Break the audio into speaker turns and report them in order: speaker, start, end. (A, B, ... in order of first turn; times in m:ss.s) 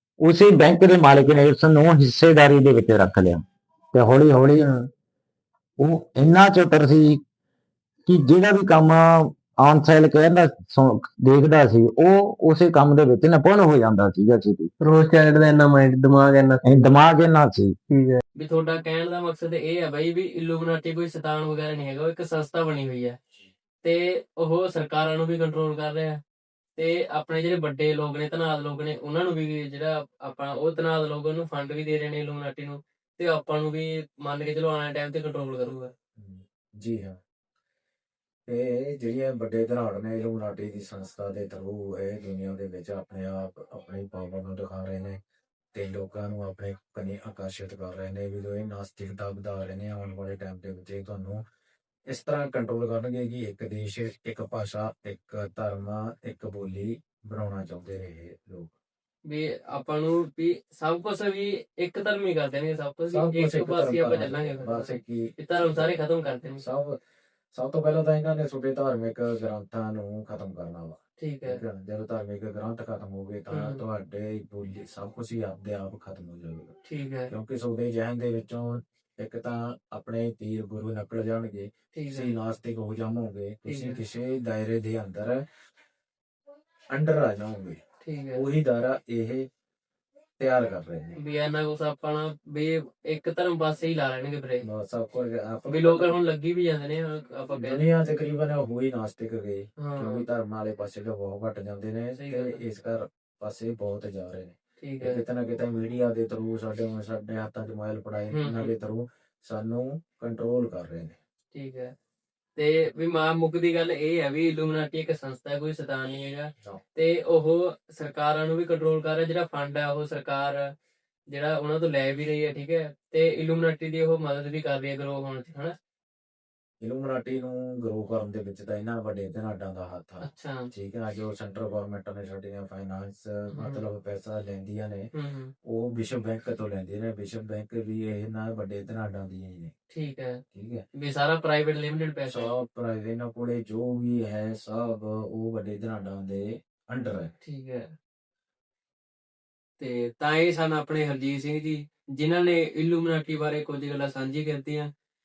0:00.2-0:03.4 A
0:03.9-0:04.7 A
0:04.6-0:04.9 B
0:05.8-0:07.2 A
0:08.1-0:14.7 A
0:14.8-0:16.6 B
0:16.6-0:17.8 A
0:17.9-0:18.2 B
0:18.4-0:23.2 C
0:23.8-0:26.2 C
0:26.8-0:35.9 C
0:36.2-0:37.2 D
0:38.5-0:45.2 D
0:45.7-0:51.4 D
0:52.1-0:58.7 D
0:59.3-1:06.6 C
1:03.1-1:05.9 D
1:06.4-1:07.0 D
1:07.5-1:16.7 D
1:11.2-1:11.6 C
1:13.5-1:13.8 C
1:16.9-1:17.3 C
1:17.3-1:25.5 D
1:21.9-1:22.3 C
1:23.7-1:24.0 C
1:26.9-1:27.8 D
1:28.0-1:28.4 C
1:28.3-1:29.5 D
1:30.4-1:31.2 D
1:31.2-1:34.6 C
1:34.6-1:36.2 D
1:35.7-1:37.9 C
1:37.5-1:51.2 D
1:39.8-1:40.2 C
1:42.2-1:42.6 C
1:44.8-1:45.2 C
1:48.3-1:48.7 C
1:51.5-1:51.9 C
1:52.6-2:00.7 C
2:01.3-2:05.8 C
2:06.8-2:15.1 D
2:10.2-2:10.7 C
2:13.6-2:13.8 C
2:15.2-2:15.5 C
2:15.6-2:19.7 D
2:19.9-2:20.4 C
2:20.5-2:20.8 D
2:21.0-2:22.5 C
2:22.3-2:27.3 D
2:27.4-2:27.9 C
2:29.8-2:34.9 C